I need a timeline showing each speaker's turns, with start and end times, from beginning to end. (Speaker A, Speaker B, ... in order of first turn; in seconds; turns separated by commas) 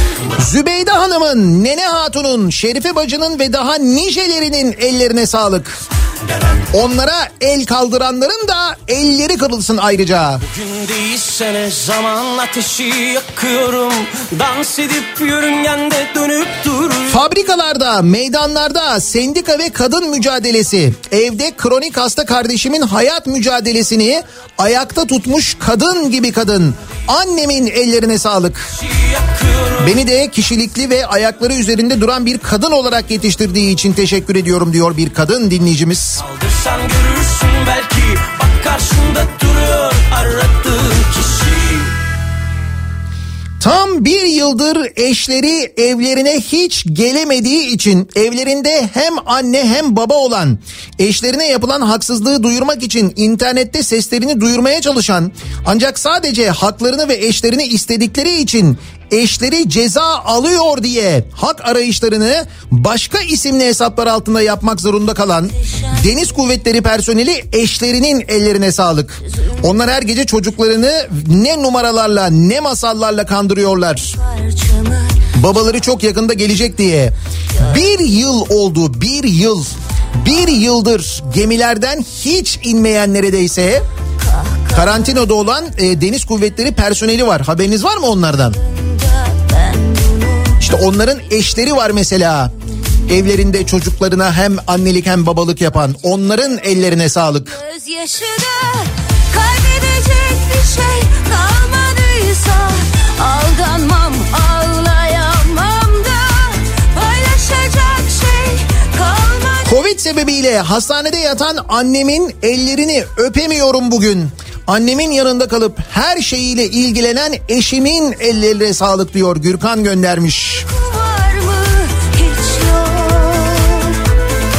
Speaker A: 0.4-5.8, Speaker A: 6.7-10.4, Speaker B: 10.4-17.2, Speaker A: 17.1-28.7, Speaker B: 28.8-30.0, Speaker A: 29.8-36.2, Speaker B: 36.2-41.9, Speaker A: 43.6-74.2, Speaker C: 74.5-75.1, Speaker A: 75.3-83.8, Speaker A: 84.7-88.6, Speaker C: 89.2-90.5, Speaker A: 90.6-92.5, Speaker A: 93.1-97.6, Speaker C: 97.5-109.6, Speaker A: 109.6-120.7, Speaker C: 120.7-123.9